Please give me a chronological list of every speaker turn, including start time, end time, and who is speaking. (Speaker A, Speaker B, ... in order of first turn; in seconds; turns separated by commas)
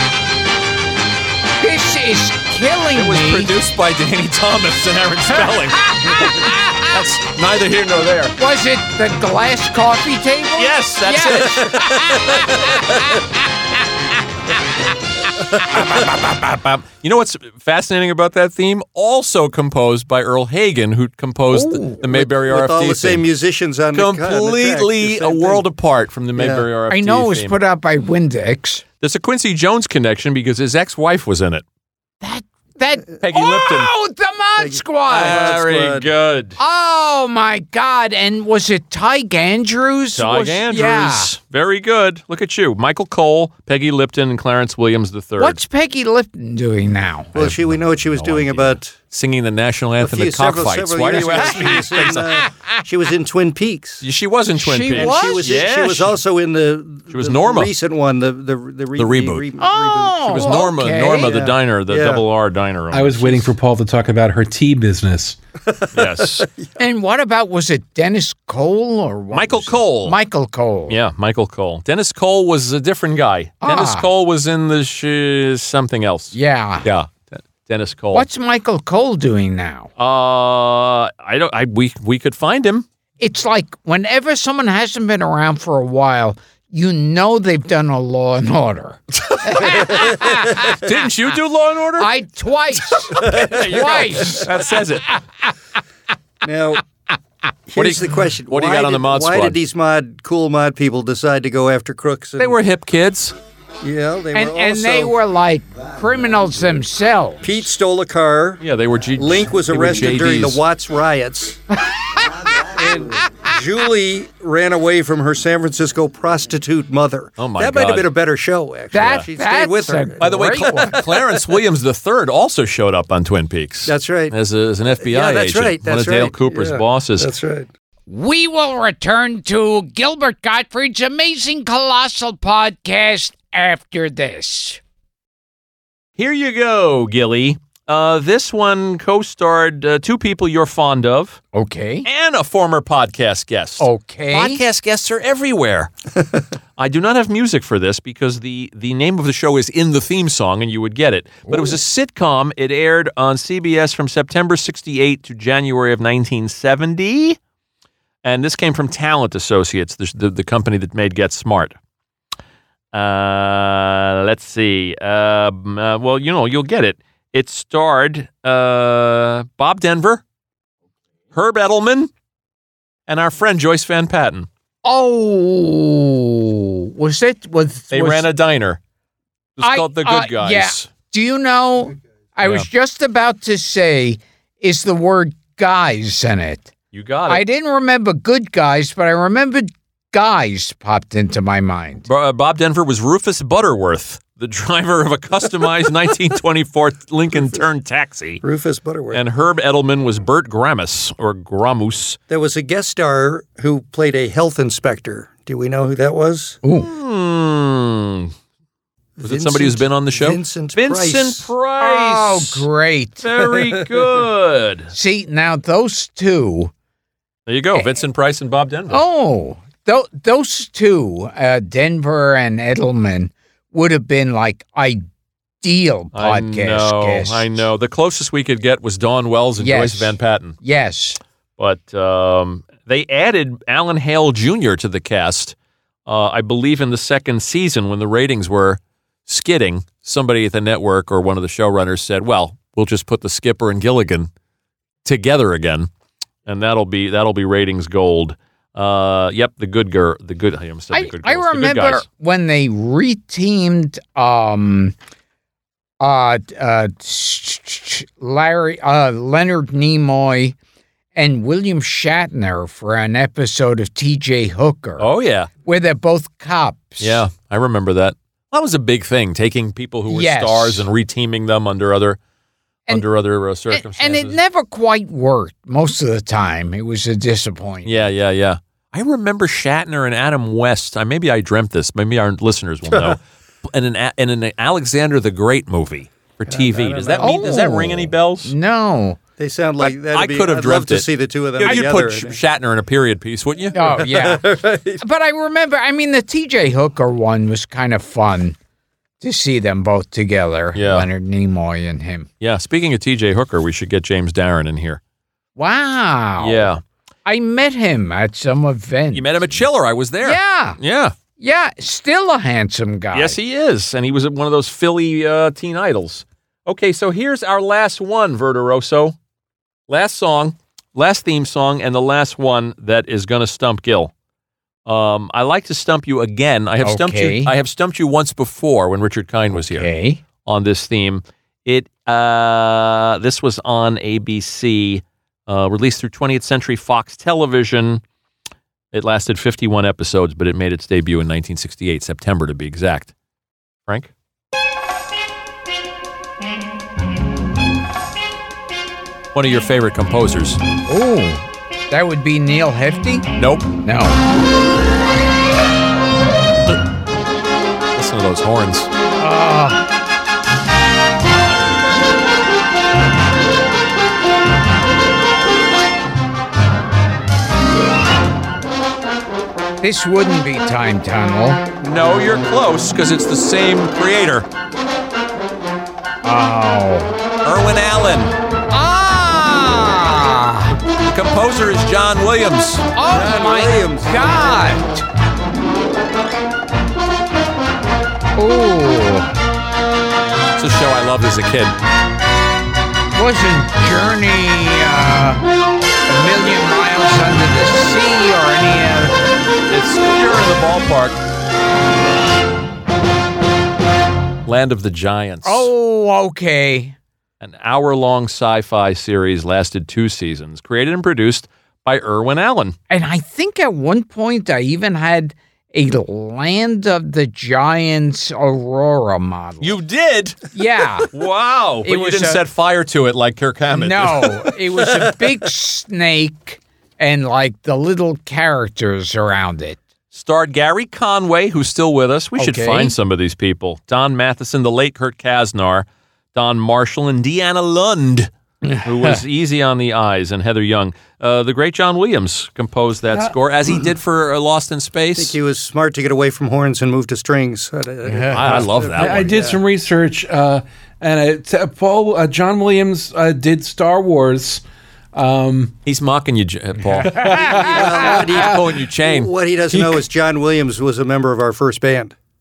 Speaker A: 1.6-3.5, Speaker B: 3.0-8.3, Speaker A: 5.8-6.8, Speaker A: 8.4-13.2, Speaker B: 10.6-12.7, Speaker B: 15.6-23.3, Speaker A: 21.5-22.0, Speaker C: 22.0-25.7, Speaker B: 23.9-27.6, Speaker C: 26.4-26.7, Speaker A: 26.9-28.8, Speaker B: 29.0-31.6, Speaker A: 32.2-35.6, Speaker B: 33.2-33.9, Speaker C: 34.6-36.1, Speaker B: 35.1-36.6, Speaker A: 36.6-41.3, Speaker B: 40.1-45.6, Speaker A: 45.4-47.4, Speaker C: 47.3-49.0, Speaker B: 47.4-52.4, Speaker C: 50.0-54.0, Speaker A: 51.2-52.4, Speaker B: 54.0-56.2, Speaker A: 54.6-55.6, Speaker C: 54.9-62.2, Speaker B: 57.1-57.7, Speaker B: 59.0-59.5, Speaker A: 59.6-61.3, Speaker B: 60.3-63.5, Speaker D: 62.9-65.4, Speaker C: 65.7-66.7, Speaker B: 65.9-66.5, Speaker A: 66.8-71.0, Speaker B: 69.3-70.2, Speaker B: 70.9-78.3, Speaker A: 73.6-74.1, Speaker A: 76.3-76.9, Speaker A: 78.1-79.9, Speaker B: 80.0-82.9, Speaker A: 83.2-90.8, Speaker B: 89.3-89.9, Speaker B: 90.7-92.1, Speaker A: 92.0-94.7, Speaker B: 93.1-95.1, Speaker C: 93.1-94.4, Speaker C: 96.4-96.8, Speaker C: 97.7-102.6, Speaker B: 97.8-99.6, Speaker B: 102.4-103.3, Speaker C: 103.8-105.2, Speaker A: 104.3-107.6, Speaker C: 107.4-108.6, Speaker B: 108.6-110.6, Speaker C: 109.2-111.6, Speaker A: 111.8-112.6, Speaker C: 112.6-121.6, Speaker B: 117.4-118.1, Speaker A: 118.9-121.0, Speaker B: 119.0-119.3, Speaker B: 120.2-127.3, Speaker C: 123.9-124.3, Speaker C: 125.0-127.7, Speaker A: 128.1-134.8, Speaker B: 136.2-141.4, Speaker A: 141.5-142.1, Speaker B: 142.1-145.9, Speaker A: 143.8-144.6, Speaker B: 146.8-157.4, Speaker A: 151.5-151.8, Speaker B: 158.2-161.8, Speaker B: 162.9-170.2, Speaker B: 171.3-172.1, Speaker B: 173.1-174.5, Speaker A: 174.8-178.3, Speaker B: 177.9-178.8, Speaker B: 179.6-180.9, Speaker A: 179.6-186.7, Speaker B: 186.9-187.4, Speaker A: 187.3-192.1, Speaker B: 192.1-198.4, Speaker C: 198.4-199.2, Speaker B: 199.1-202.2, Speaker C: 202.3-206.6, Speaker A: 206.6-206.9, Speaker B: 206.8-208.3, Speaker C: 209.2-211.5, Speaker B: 209.2-212.7, Speaker A: 211.8-213.3, Speaker B: 213.2-214.9, Speaker A: 214.9-216.7, Speaker B: 217.5-219.0, Speaker A: 218.9-225.1, Speaker A: 225.6-227.6, Speaker B: 226.1-230.6, Speaker A: 229.6-231.2, Speaker B: 231.6-235.6, Speaker B: 236.1-244.3, Speaker B: 245.1-245.9, Speaker B: 246.5-252.0, Speaker A: 250.9-254.9, Speaker A: 256.0-260.6, Speaker A: 261.1-265.1, Speaker B: 265.0-265.5, Speaker A: 265.7-267.2, Speaker B: 267.0-272.2, Speaker A: 270.1-270.9, Speaker B: 272.9-274.4, Speaker A: 273.7-278.1, Speaker B: 277.9-288.5, Speaker C: 286.5-287.5, Speaker A: 287.2-289.2, Speaker C: 289.4-292.4, Speaker B: 289.8-293.8, Speaker A: 291.6-291.9, Speaker A: 293.7-298.6, Speaker C: 293.8-295.0, Speaker A: 299.2-302.3, Speaker B: 300.8-301.1, Speaker B: 302.4-305.0, Speaker A: 305.6-306.7, Speaker B: 306.4-306.8, Speaker A: 307.3-309.6, Speaker B: 309.1-311.1, Speaker A: 310.2-310.8, Speaker A: 311.4-313.4, Speaker B: 313.1-319.1, Speaker B: 319.9-324.1, Speaker B: 324.9-329.9, Speaker A: 326.8-327.5, Speaker A: 329.5-330.2, Speaker B: 330.4-338.0, Speaker B: 338.9-343.1, Speaker B: 343.9-344.1, Speaker B: 349.4-350.6, Speaker A: 350.9-353.3, Speaker B: 353.4-353.7, Speaker A: 353.8-354.2, Speaker B: 358.0-358.9, Speaker A: 359.2-359.8, Speaker A: 369.8-371.6, Speaker B: 371.8-374.5, Speaker A: 376.2-377.1, Speaker B: 377.4-378.4, Speaker A: 378.7-380.8, Speaker B: 381.0-382.9, Speaker A: 382.9-385.1, Speaker C: 383.0-384.7, Speaker A: 388.4-389.3, Speaker B: 390.6-391.8, Speaker A: 393.1-395.4, Speaker A: 396.1-399.2, Speaker B: 399.7-401.2, Speaker B: 404.5-405.7, Speaker A: 405.4-406.9, Speaker B: 407.4-412.8, Speaker A: 412.9-419.8, Speaker B: 419.6-420.4, Speaker A: 420.5-421.1, Speaker B: 421.1-424.5, Speaker A: 421.9-422.4, Speaker A: 423.7-429.8, Speaker B: 430.1-445.4, Speaker A: 432.4-432.9, Speaker A: 438.6-439.2, Speaker C: 445.1-449.6, Speaker A: 448.1-448.7, Speaker B: 448.3-449.3, Speaker D: 449.0-454.6, Speaker D: 455.1-455.8, Speaker B: 455.9-459.3, Speaker A: 456.8-458.2, Speaker D: 457.0-458.2, Speaker C: 457.5-462.1, Speaker D: 459.7-460.0